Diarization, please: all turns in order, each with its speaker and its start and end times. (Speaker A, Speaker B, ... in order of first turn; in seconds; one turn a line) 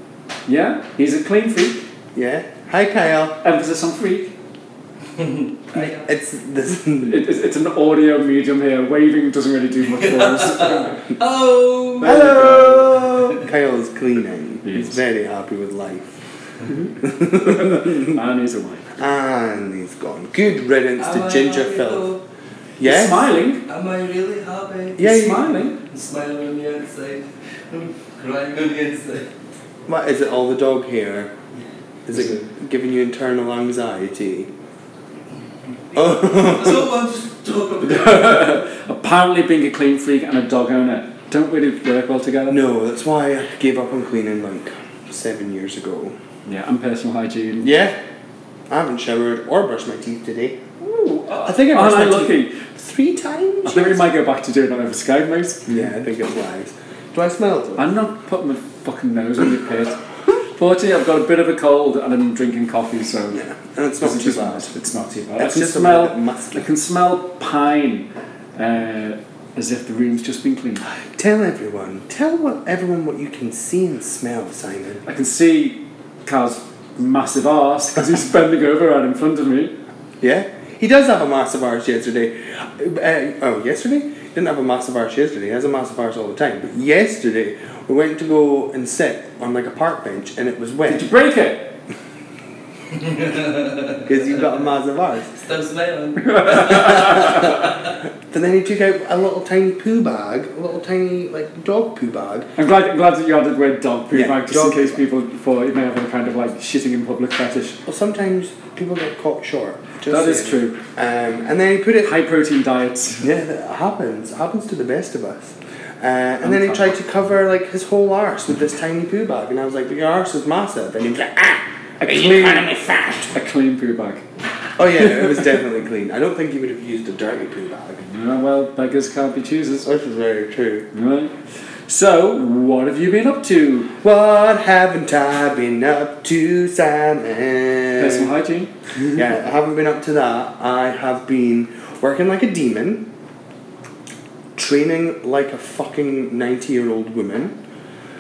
Speaker A: 0.5-1.8
Speaker B: 2.1-3.4
Speaker A: 3.4-4.4
Speaker C: 5.2-6.0
Speaker B: 5.8-7.2
Speaker A: 6.9-11.0
Speaker C: 10.1-13.4
Speaker A: 12.0-12.9
Speaker B: 12.0-16.2
Speaker A: 14.6-15.0
Speaker A: 16.7-18.9
Speaker B: 16.8-18.2
Speaker B: 19.0-22.1
Speaker C: 21.0-22.2
Speaker B: 22.8-23.3
Speaker A: 22.8-23.6
Speaker C: 23.7-29.3
Speaker B: 25.0-25.6
Speaker A: 25.0-25.8
Speaker B: 29.9-31.4
Speaker B: 32.1-34.5
Speaker A: 32.1-32.5
Speaker C: 35.9-38.6
Speaker B: 36.0-36.9
Speaker A: 37.8-42.6
Speaker B: 42.5-46.2
Speaker A: 46.5-47.7
Speaker B: 47.6-48.0
Speaker B: 48.7-50.6
Speaker A: 50.8-52.6
Speaker B: 51.4-54.1
Speaker A: 53.6-55.8
Speaker B: 55.7-57.9
Speaker A: 57.8-63.4
Speaker B: 63.3-64.7
Speaker A: 64.0-70.9
Speaker B: 65.4-66.7
Speaker B: 71.0-75.0
Speaker A: 75.0-79.8
Speaker B: 80.2-91.1
Speaker A: 90.8-91.8
Speaker C: 92.9-94.6
Speaker B: 94.1-95.4
Speaker C: 95.4-98.0
Speaker A: 96.2-97.6
Speaker B: 96.7-97.5
Speaker B: 98.3-102.5
Speaker A: 102.6-107.8
Speaker B: 104.1-105.0
Speaker B: 107.9-112.2
Speaker A: 110.1-110.8
Speaker A: 112.0-113.3
Speaker B: 113.2-123.3
Speaker A: 116.4-117.0
Speaker A: 122.0-122.7
Speaker A: 123.3-124.3
Speaker B: 124.8-128.0
Speaker A: 125.0-125.5
Speaker A: 128.0-129.9
Speaker B: 129.8-130.9
Speaker A: 130.9-131.3
Speaker A: 131.9-133.9
Speaker B: 134.0-138.3
Speaker A: 137.9-138.8
Speaker B: 139.1-143.1
Speaker B: 144.6-147.6